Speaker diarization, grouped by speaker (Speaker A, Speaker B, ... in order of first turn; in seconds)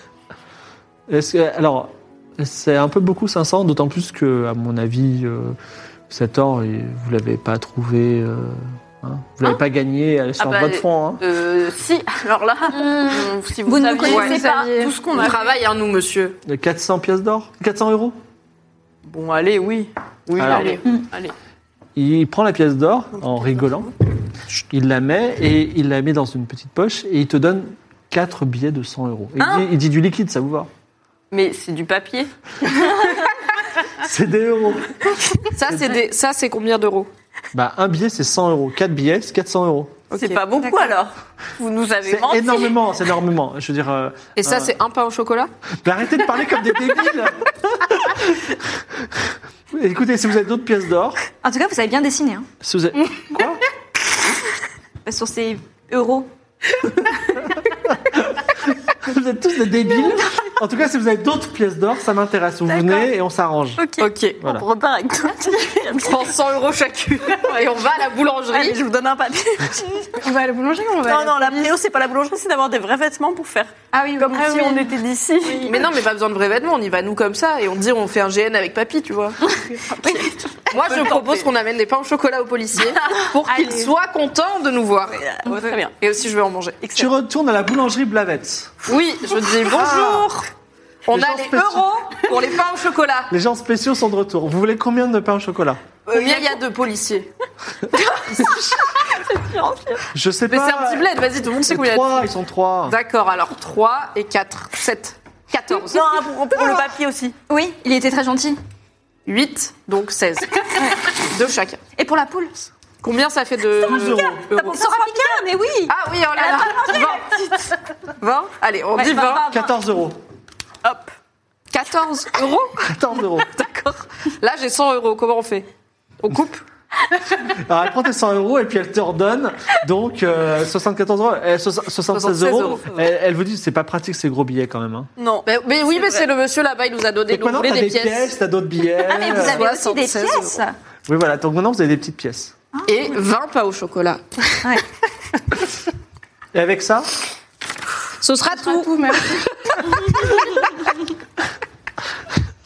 Speaker A: 1.1-5.6, 6.1-11.2, 16.5-18.2, 20.4-20.8, 22.0-23.9, 24.5-30.7, 34.0-35.0, 37.5-40.0, 42.1-44.7, 45.8-51.2, 52.6-53.6, 58.0-63.8, 87.0-88.9, 89.7-90.3, 91.1-92.2, 93.3-95.8, 100.1-103.0, 113.8-114.4, 119.4-120.2, 122.8-123.5, 127.5-135.1, 137.3-139.6, 141.1-142.6, 146.5-147.1
Speaker B: 10.4-15.6, 19.0-21.3, 29.4-29.7, 31.3-32.3, 40.1-42.8, 62.7-63.0, 63.8-66.3, 68.5-70.1, 71.0-75.9, 80.0-81.5, 82.8-83.9, 85.1-85.9, 86.8-87.1, 96.1-96.6, 105.7-107.4, 120.8-121.1, 135.2-136.3
Speaker C: 12.7-14.5, 40.6-40.9, 51.4-52.5, 55.0-56.3, 73.9-74.9, 80.1-80.3, 85.5-85.7, 98.4-98.7, 99.2-100.0, 107.5-108.6, 112.0-112.7, 114.0-116.0, 116.5-117.2, 119.0-119.7, 139.0-140.8, 142.7-143.2
Speaker D: 14.1-14.9, 70.2-71.7, 148.5-149.4
Speaker E: 15.1-16.4, 35.5-37.1, 40.1-40.4, 44.4-45.5, 64.0-64.4, 66.0-68.8, 75.7-79.4, 80.7-85.2, 86.0-87.1, 88.9-90.5, 91.1-93.3, 96.1-97.3, 100.5-102.3, 102.9-106.2, 109.3-111.8, 113.0-114.9, 115.9-117.4, 118.2-119.5, 121.7-125.7, 126.2-126.6, 132.1-132.8, 135.5-138.3, 139.2-140.6, 142.9-144.4, 148.2-150.5